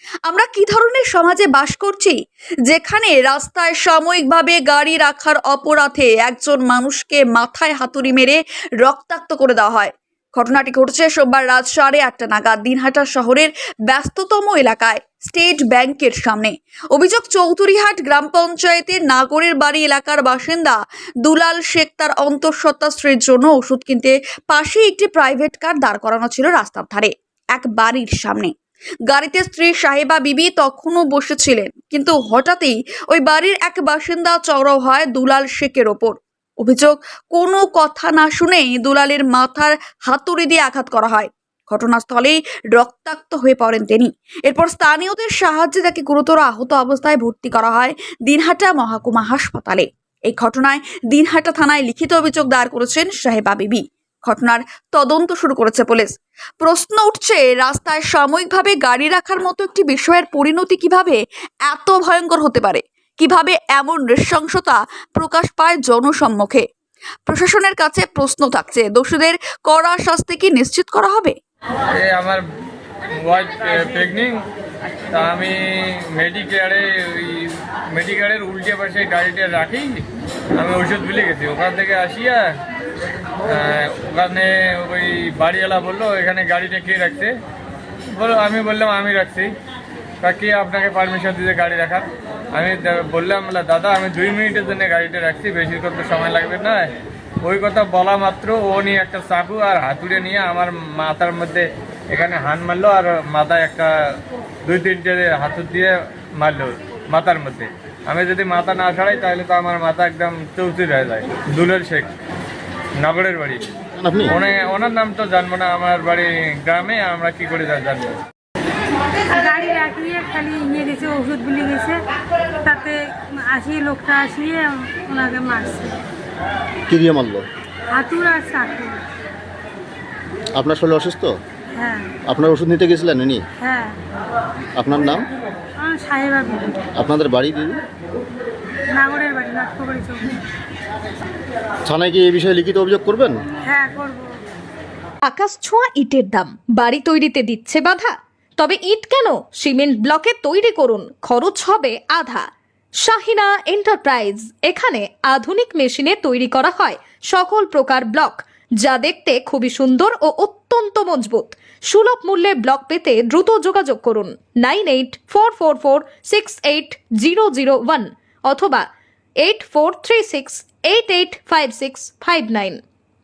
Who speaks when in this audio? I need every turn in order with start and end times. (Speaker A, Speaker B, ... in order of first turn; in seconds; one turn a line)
Speaker A: 0.3-2.2
Speaker A: 2.7-28.5
Speaker A: 29.1-66.7
Speaker A: 67.3-71.4
Speaker B: 72.0-72.4
Speaker B: 73.2-74.4
Speaker B: 75.1-80.0
Speaker B: 80.6-82.5
Speaker B: 83.5-87.3
Speaker B: 88.2-89.5
Speaker B: 90.2-96.9
Speaker B: 97.4-104.2
Speaker B: 104.7-112.1
Speaker B: 113.0-113.6
Speaker C: 114.0-114.3
Speaker B: 114.3-118.1
Speaker D: 119.3-122.0
Speaker D: 122.6-126.0
Speaker C: 126.9-127.5
Speaker D: 127.9-129.0
Speaker C: 130.6-131.4
Speaker D: 131.8-132.1
Speaker C: 132.3-133.4
Speaker D: 133.6-134.0
Speaker C: 134.8-135.3
Speaker D: 135.8-136.8
Speaker C: 137.0-137.8
Speaker D: 138.9-140.3
Speaker C: 141.9-143.4
Speaker D: 143.7-144.3
Speaker E: 145.2-152.5
Speaker E: 153.0-168.9
Speaker E: 169.4-172.8